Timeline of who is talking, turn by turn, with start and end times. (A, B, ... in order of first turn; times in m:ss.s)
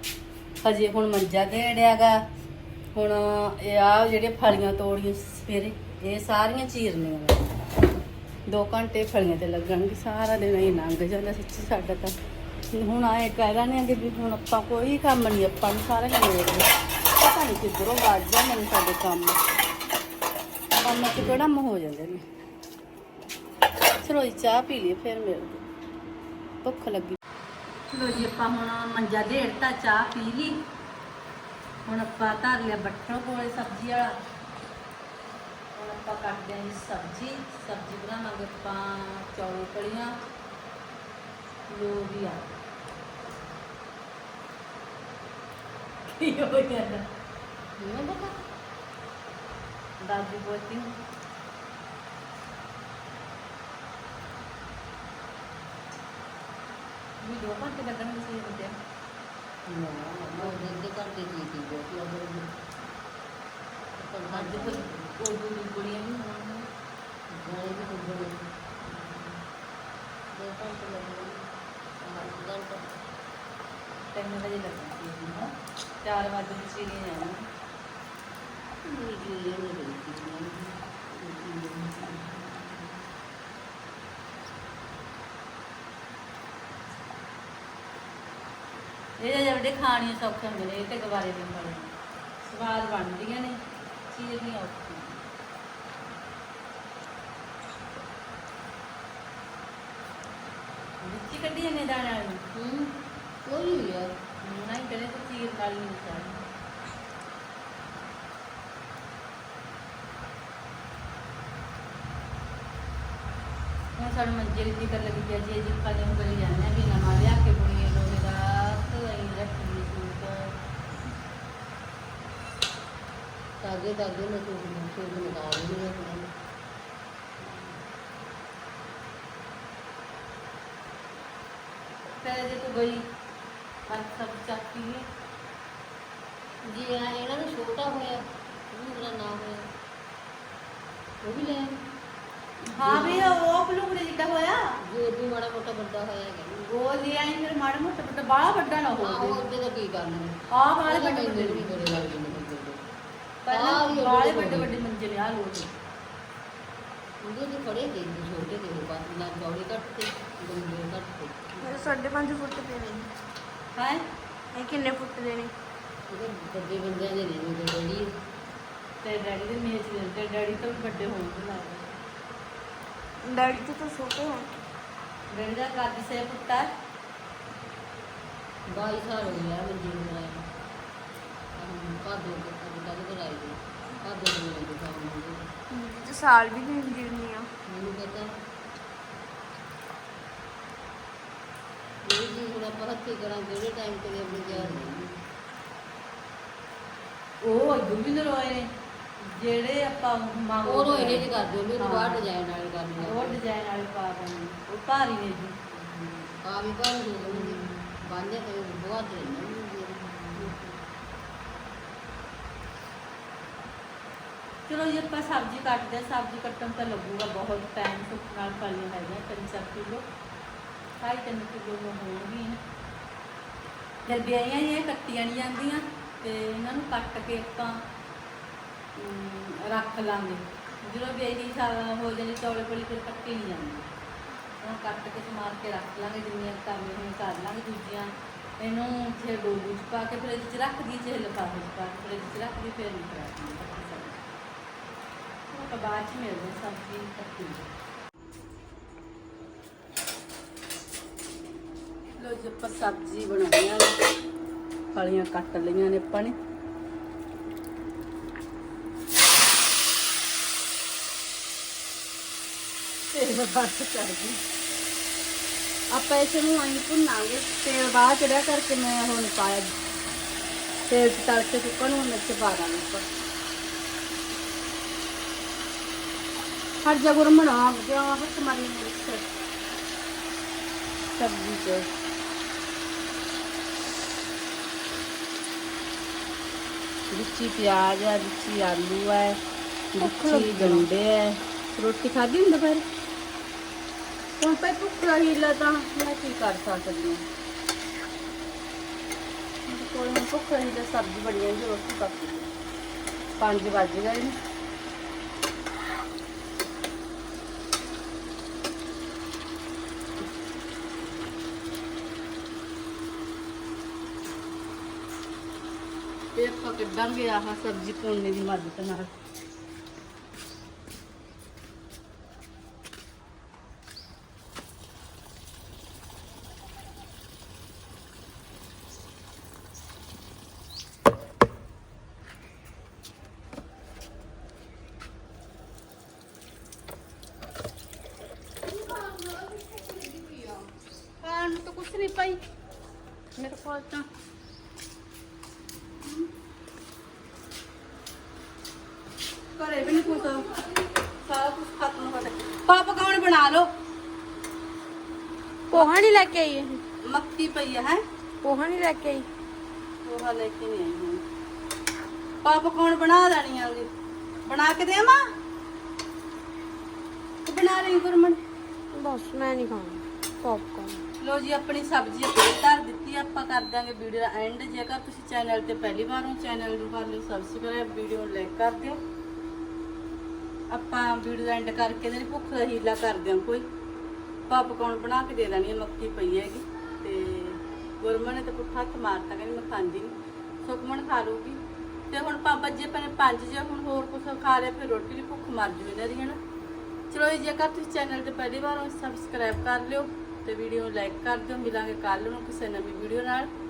0:00.6-0:02.2 A
0:02.9-0:07.5 A
0:08.5-0:12.2 A
0:12.7-0:19.4 A
0:20.7-0:22.2 A
0:24.0-0:25.6 A
0:26.6-0:27.2 A
0:27.9-0:30.6 A
0:31.9-0:34.2 A
0:35.7-0:40.2 A
0:41.7-0:42.5 A
0:46.1-0:47.0 A
0:47.8-0:48.4 B
0:50.0-0:50.9 A
0:57.2-0:58.8 A
0:59.7-1:02.5 B
1:00.4-1:00.7 A
1:04.0-1:05.1 B
1:04.3-1:06.7 A
1:07.3-1:09.4 B
1:10.3-1:11.4 B
1:12.0-1:12.9 B
1:14.1-1:15.5 A
1:16.0-1:17.4 A
1:18.8-1:23.1 B
1:29.2-1:35.2 A
1:41.0-1:42.4 A
1:42.5-1:44.1 B
1:44.4-1:46.4 A
1:54.0-2:00.5 A
2:03.6-2:06.3 B
2:07.4-2:07.8 B
2:12.2-2:13.0 A
2:13.9-2:15.0 A
2:16.6-2:19.7 B
2:21.2-2:21.8 B
2:22.7-2:24.7 A
2:22.8-2:23.4 B
2:24.9-2:26.6 B
2:26.6-2:29.4 A
2:29.0-2:30.4 B
2:30.5-2:32.1 A
2:30.9-2:32.9 B
2:33.5-2:35.8 A
2:33.5-2:34.7 B
2:37.2-2:42.0 B
2:41.6-2:43.1 C
2:43.8-2:44.0 A
2:44.5-2:45.5 C
2:46.1-2:48.1 B
2:49.0-2:52.0 A
2:53.2-2:54.6 C
2:55.3-2:56.7 A
2:58.7-3:00.4 B
3:01.6-3:05.4 B
3:05.7-3:07.5 C
3:07.7-3:08.3 B
3:12.0-3:15.1 B
3:17.4-3:18.7 A
3:19.2-3:22.2 A
3:20.6-3:23.4 B
3:23.0-3:25.6 A
3:25.7-3:30.6 B
3:30.4-3:30.7 A
3:34.7-3:40.0 A
3:41.0-3:42.6 A
3:44.0-3:47.8 A
3:49.0-3:53.9 A
3:54.6-4:04.2 A
4:05.5-4:07.7 A
4:12.2-4:14.0 A
4:14.9-4:16.4 A
4:23.1-4:24.4 A
4:25.9-4:29.7 A
4:30.9-4:33.1 A
4:36.8-4:39.3 A
4:41.1-4:41.9 A
4:47.1-4:49.4 A
4:50.0-4:52.8 A
4:50.0-4:50.9 B
4:54.4-4:57.2 A
4:59.7-5:02.5 A
5:03.4-5:04.4 A
5:16.4-5:19.1 A
5:38.7-5:40.7 B
5:41.2-5:42.4 A
5:43.4-5:44.1 A
5:49.6-5:50.5 A
5:50.4-5:50.8 B
5:51.1-5:53.7 A
5:55.7-5:56.8 C
5:55.7-5:56.0 A
5:57.0-5:58.0 A
5:58.4-5:59.3 C
6:00.0-6:01.2 A
6:02.4-6:03.9 A
6:04.5-6:05.2 A
6:07.4-6:08.4 A
6:08.9-6:11.0 C
6:11.2-6:19.0 A
6:20.7-6:23.6 A
6:24.5-6:36.4 A
6:37.1-6:43.5 A